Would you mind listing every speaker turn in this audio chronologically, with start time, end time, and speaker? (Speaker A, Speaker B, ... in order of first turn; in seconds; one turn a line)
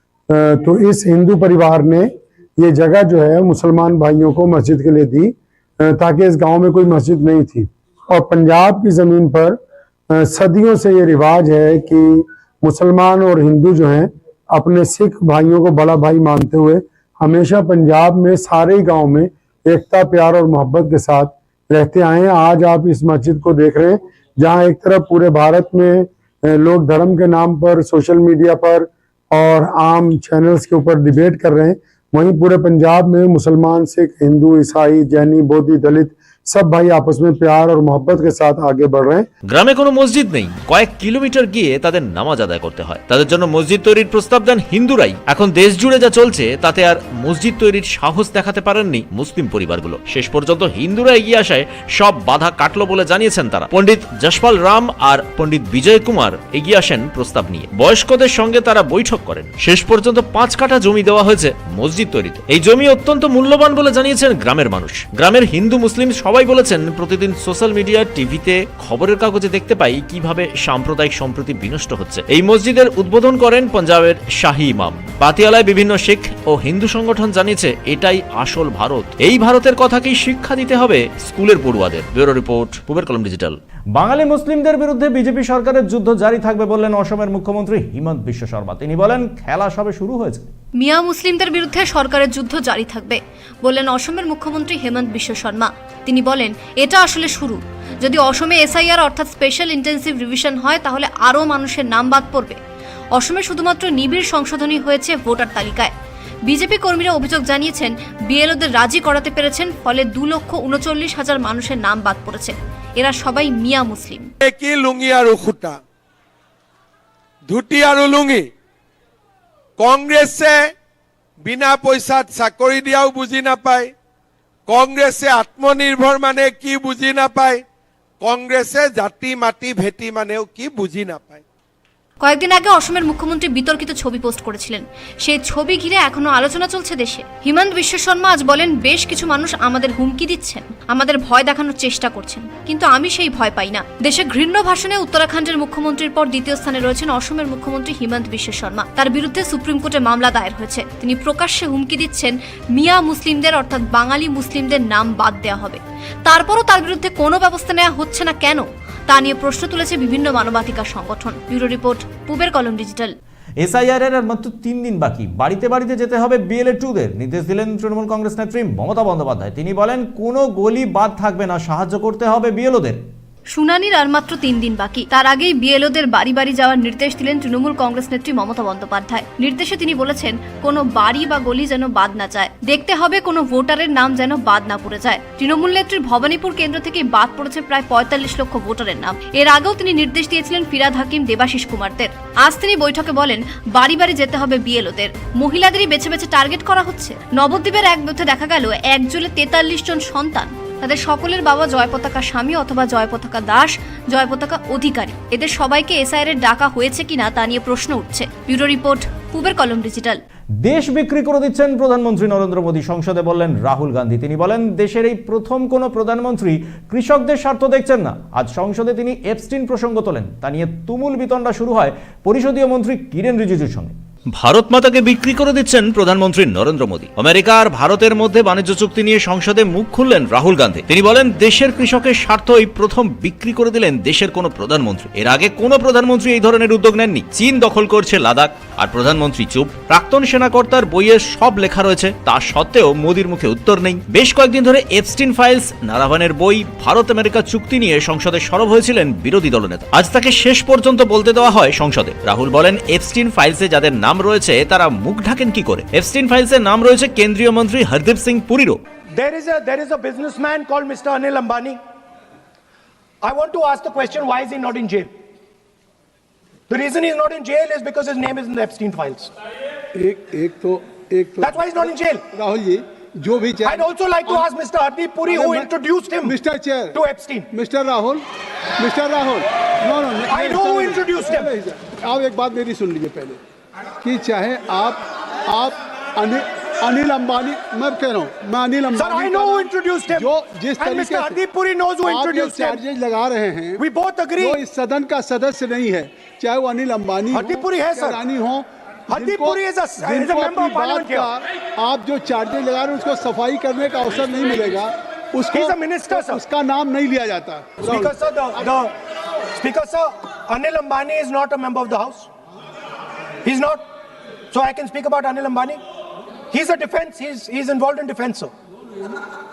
Speaker A: 0.3-9.6
Speaker A: 10.2-39.2
Speaker B: 39.5-83.6
Speaker C: 83.9-90.5
Speaker D: 90.8-102.6
Speaker D: 103.1-105.9
Speaker D: 106.5-114.3
Speaker E: 114.4-115.8
Speaker E: 117.5-118.5
Speaker E: 119.8-120.7
Speaker E: 121.4-123.9
Speaker E: 124.7-127.6
Speaker E: 128.2-131.4
Speaker D: 132.2-163.1
Speaker C: 163.6-173.0
Speaker D: 173.5-210.2
Speaker C: 210.6-223.9
Speaker B: 224.3-258.8
Speaker F: 259.1-261.8
Speaker F: 263.2-265.1
Speaker F: 266.7-269.3
Speaker G: 269.9-274.5
Speaker F: 271.4-272.2
Speaker F: 273.6-276.4
Speaker G: 275.3-277.0
Speaker F: 276.9-277.5
Speaker G: 277.5-278.2
Speaker G: 278.8-283.4
Speaker F: 280.3-281.5
Speaker G: 284.0-291.4
Speaker F: 288.9-292.8
Speaker G: 292.0-293.8
Speaker F: 293.8-294.6
Speaker G: 294.4-308.1
Speaker F: 297.3-298.2
Speaker F: 299.1-301.3
Speaker F: 305.5-306.4
Speaker F: 307.8-308.9
Speaker F: 309.5-312.3
Speaker F: 313.4-313.8
Speaker F: 314.5-315.8
Speaker F: 316.5-318.5